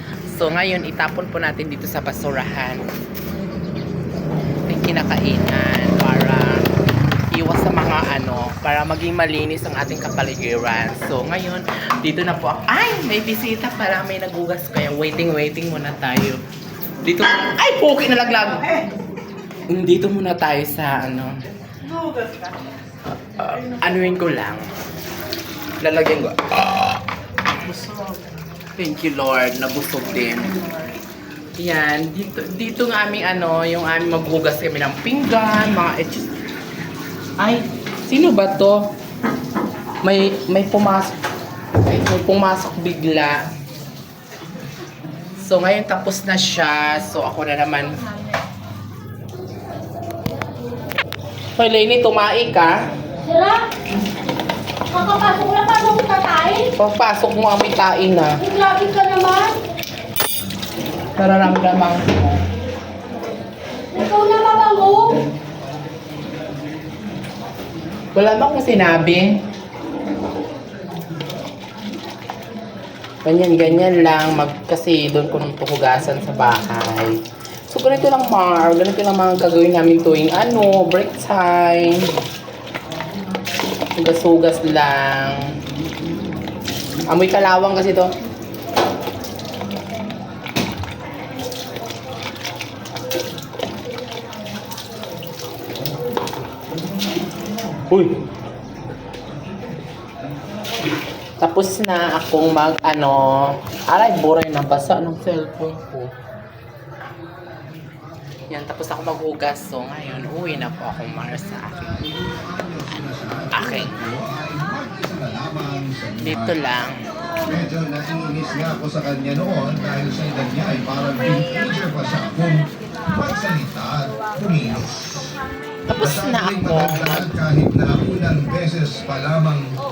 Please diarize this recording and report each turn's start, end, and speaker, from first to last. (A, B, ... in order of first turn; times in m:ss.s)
0:00.3-0:02.8 A
0:04.5-0:06.6 A
0:07.3-0:16.4 A
0:17.0-0:18.8 A
0:19.7-0:22.3 A
0:23.3-0:24.7 A
0:25.8-0:27.0 A
0:27.6-0:28.2 A
0:28.8-0:31.0 A
0:31.6-0:36.2 A
0:37.4-0:38.9 A
0:40.0-0:41.2 A
0:41.8-0:43.5 A
0:45.4-0:48.0 A
0:51.6-0:52.8 A
0:53.2-0:53.7 B
0:54.9-0:56.7 B
0:56.7-0:58.4 A
0:58.4-0:59.6 B
1:01.2-1:02.4 A
1:03.9-1:05.2 B
1:08.1-1:09.4 A
1:13.2-1:22.1 A
1:24.0-1:25.6 A
1:27.1-1:28.1 A
1:37.9-1:38.2 A
1:41.4-1:46.1 A
1:48.5-1:51.9 A
1:50.4-1:56.7 C
1:53.5-1:53.9 A
1:56.2-1:57.1 A
1:57.4-2:05.3 C
2:05.9-2:07.3 A
2:06.0-2:09.8 C